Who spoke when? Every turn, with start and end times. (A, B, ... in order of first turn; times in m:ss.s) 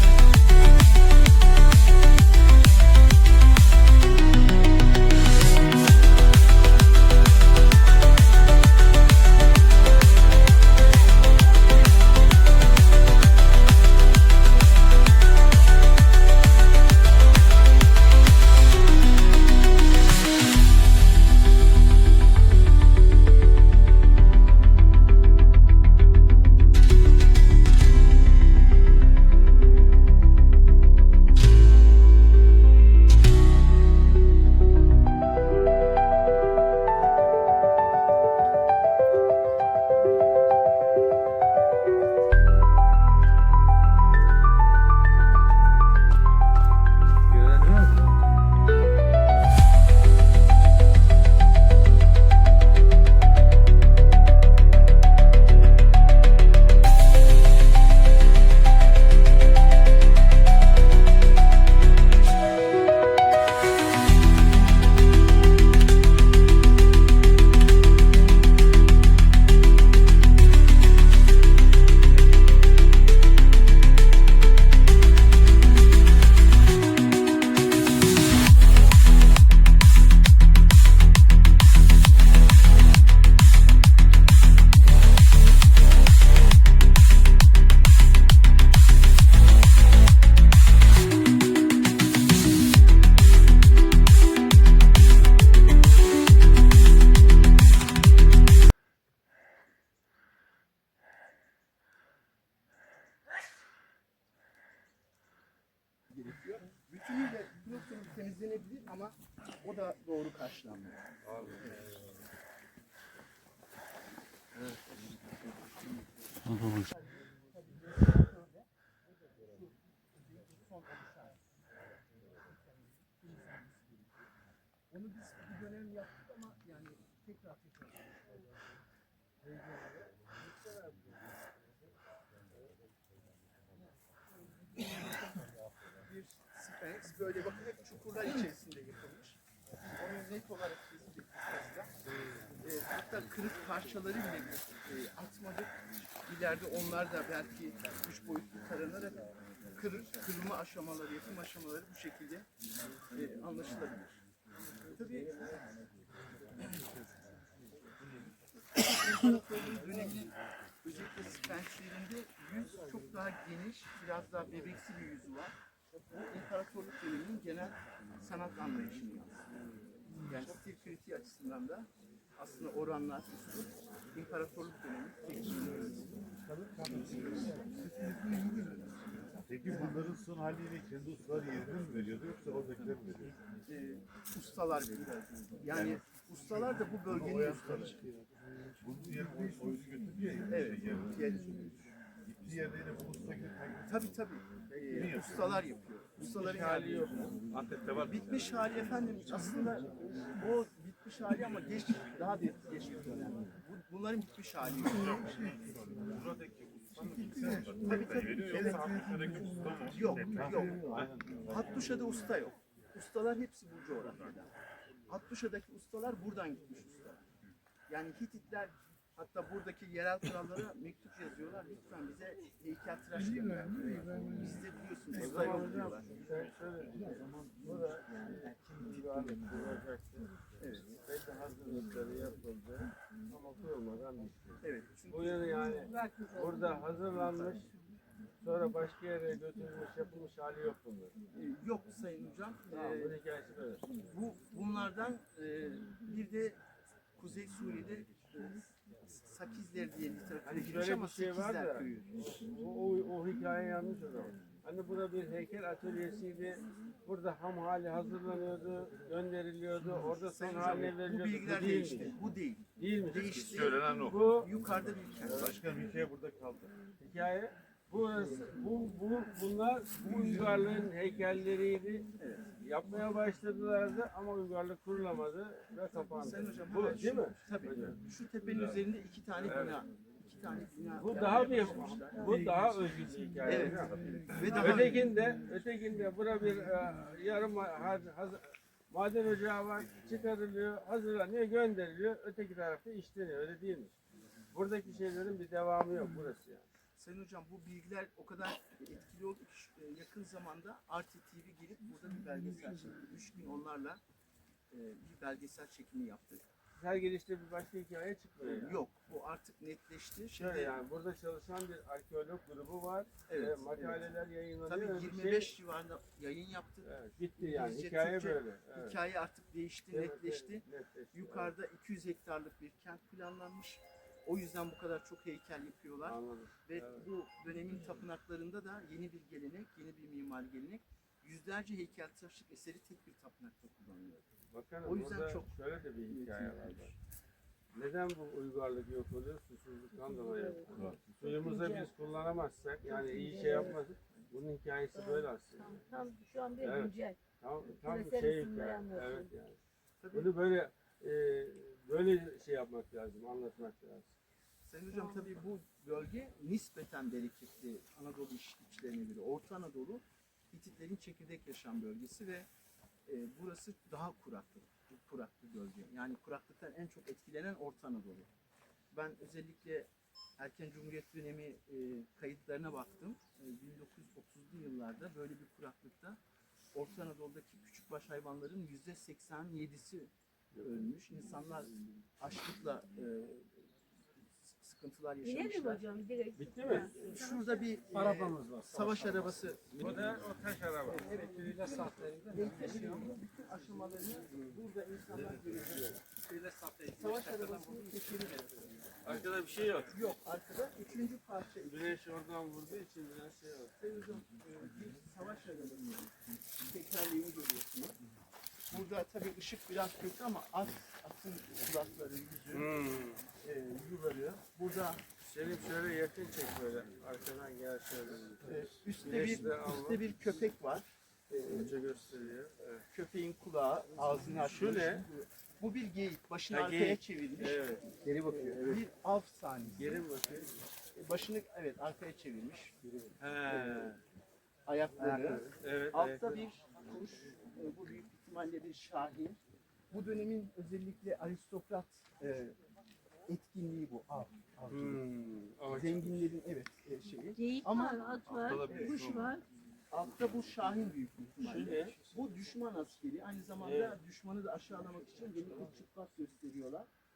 1:46.1-1:51.0 A
1:56.6-1:58.7 A
1:59.5-2:01.4 A
2:02.4-2:04.1 A
2:04.9-2:08.2 A
2:16.0-2:21.9 A
2:22.6-2:32.5 A
2:33.1-2:34.2 A
2:34.9-2:35.4 A
2:38.6-2:45.5 A
2:46.1-2:49.5 A
2:50.2-2:56.0 A
2:57.1-2:57.9 A
2:58.4-2:58.7 A
2:59.5-3:03.3 B
2:59.6-3:00.1 A
3:03.6-3:08.0 A
3:08.9-3:11.0 B
3:10.4-3:11.9 A
3:12.4-3:13.8 B
3:13.8-3:17.4 A
3:16.2-3:18.1 C
3:18.0-3:25.6 A
3:26.9-3:31.5 B
3:27.0-3:34.5 A
3:35.1-3:37.3 A
3:37.9-3:46.2 A
3:45.1-3:50.3 C
3:48.1-3:49.1 A
3:50.6-3:51.0 A
3:51.0-3:57.7 C
3:54.6-3:55.6 A
3:55.6-3:56.5 D
3:58.4-4:01.1 C
4:01.3-4:03.2 A
4:02.7-4:03.8 C
4:04.0-4:06.6 A
4:07.2-4:12.1 A
4:10.4-4:22.2 C
4:20.0-4:25.6 A
4:22.8-4:24.5 C
4:23.6-4:24.1 B
4:25.4-4:26.7 B
4:27.0-4:38.0 C
4:36.1-4:42.4 A
4:39.4-4:39.8 C
4:41.0-4:53.9 C
4:43.4-4:45.1 A
4:54.5-4:56.7 C
4:57.0-5:04.0 A
5:04.7-5:06.4 A
5:06.8-5:08.8 C
5:08.4-5:10.8 A
5:10.4-5:15.5 C
5:13.3-5:14.0 A
5:14.6-5:34.3 A
5:16.8-5:19.0 C
5:19.9-5:21.5 C
5:26.0-5:27.0 C
5:34.5-5:36.9 C
5:34.8-5:35.5 A
5:36.1-5:36.9 A
5:37.7-5:45.7 C
5:40.0-5:41.9 D
5:42.9-5:43.7 D
5:43.3-5:44.3 A
5:45.0-5:47.2 D
5:46.6-5:49.6 C
5:47.8-5:49.3 D
5:50.0-5:50.3 A
5:50.1-5:54.1 C
5:54.6-6:02.5 A
5:54.9-5:55.3 D
6:03.0-6:08.3 A
6:08.9-6:16.2 A
6:16.7-6:25.9 A
6:25.2-6:27.7 D
6:26.4-6:26.9 C
6:26.8-6:30.0 A
6:27.9-6:28.8 C
6:29.7-6:31.2 C
6:30.9-6:38.9 A
6:34.3-6:34.6 C
6:39.0-6:40.0 C
6:39.9-6:42.0 A
6:41.6-6:43.7 C
6:43.8-6:48.0 A
6:48.7-6:52.7 A
6:52.5-6:53.2 C
6:53.4-6:55.0 A
6:55.2-7:00.0 C
6:58.4-7:01.7 A
7:01.4-7:02.8 C
7:02.9-7:09.8 A
7:04.4-7:05.0 C
7:06.5-7:07.9 C
7:09.7-7:10.6 C
7:10.9-7:12.8 A
7:13.2-7:14.0 C
7:13.5-7:13.9 A
7:14.6-7:19.4 A
7:15.0-7:16.4 C
7:19.9-7:22.6 A
7:23.3-7:25.0 A
7:24.7-7:26.1 C
7:25.7-7:29.0 A
7:27.3-7:29.4 D
7:29.9-7:36.9 A
7:31.4-7:32.0 C
7:33.6-7:33.9 C